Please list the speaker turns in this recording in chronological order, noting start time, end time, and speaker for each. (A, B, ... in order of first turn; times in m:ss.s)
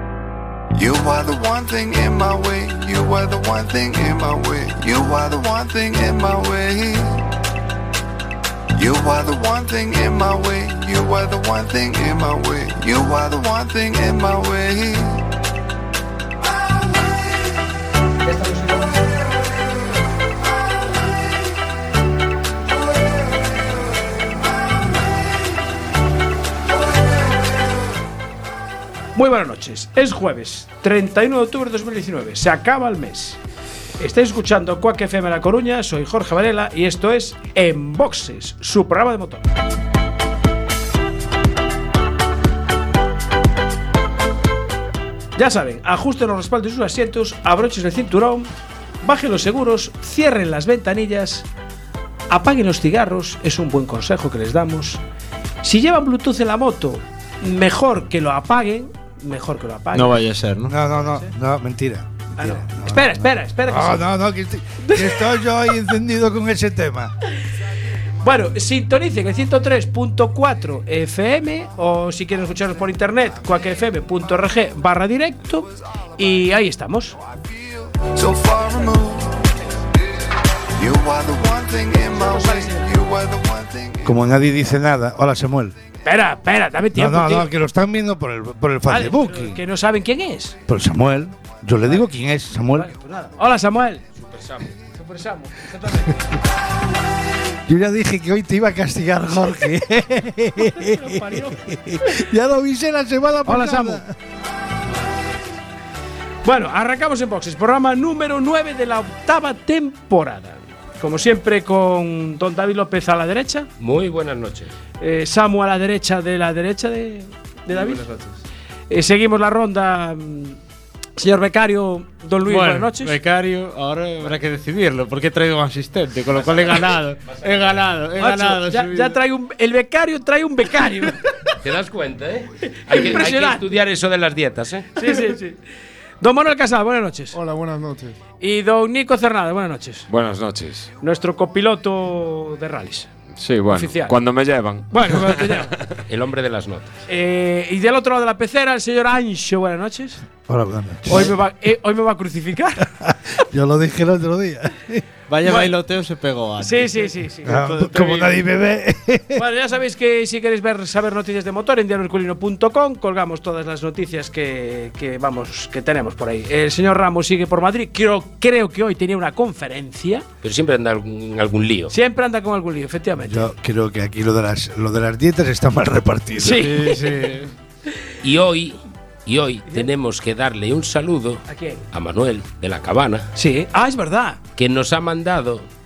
0:00.7-0:07.2 A
0:08.8-0:15.2 A
0:18.3-0:18.9 B
0:29.2-0:33.4 B
0:34.0-0:39.4 B
0:45.4-0:48.5 B
0:49.0-0:51.4 B
0:52.3-0:55.0 B
0:55.6-1:00.2 B
0:59.9-1:00.8 C
1:00.7-1:07.1 D
1:02.4-1:04.0 B
1:04.8-1:05.3 B
1:08.2-1:17.2 B
1:18.0-1:19.5 A
1:20.8-1:24.2 A
1:22.1-1:22.9 B
1:24.0-1:25.7 D
1:26.0-1:27.5 B
1:26.9-1:29.6 D
1:28.9-1:30.6 B
1:30.7-1:32.9 D
1:32.7-1:34.0 B
1:34.2-1:34.8 E
1:34.9-1:36.2 B
1:37.7-1:44.1 D
1:40.6-1:42.2 B
1:43.4-1:44.0 B
1:46.4-1:53.7 B
1:53.8-1:54.7 E
1:55.0-1:58.0 B
1:57.7-1:58.4 C
1:58.9-2:00.6 B
2:01.2-2:03.2 B
2:02.4-2:09.2 C
2:08.1-2:11.3 B
2:11.6-2:14.9 E
2:12.7-2:13.7 B
2:14.9-2:15.6 B
2:16.2-2:17.4 B
2:17.4-2:18.1 C
2:18.4-2:20.1 B
2:20.1-2:20.9 F
2:21.0-2:23.1 B
2:23.3-2:25.6 F
2:23.7-2:24.2 B
2:24.9-2:25.8 B
2:26.1-2:26.9 E
2:27.1-2:30.2 B
2:30.5-2:31.3 D
2:31.1-2:32.9 B
2:33.1-2:35.0 D
2:35.3-2:38.0 C
2:35.4-2:35.7 B
2:36.6-2:37.6 B
2:37.4-2:39.4 D
2:39.3-2:50.2 B
2:50.4-2:51.9 E
2:51.9-2:53.4 B
2:53.3-2:56.8 D
2:56.4-2:57.3 B
2:56.5-2:57.5 C
2:58.2-3:03.3 E
3:01.5-3:01.8 B
3:03.3-3:04.4 B
3:04.6-3:05.6 E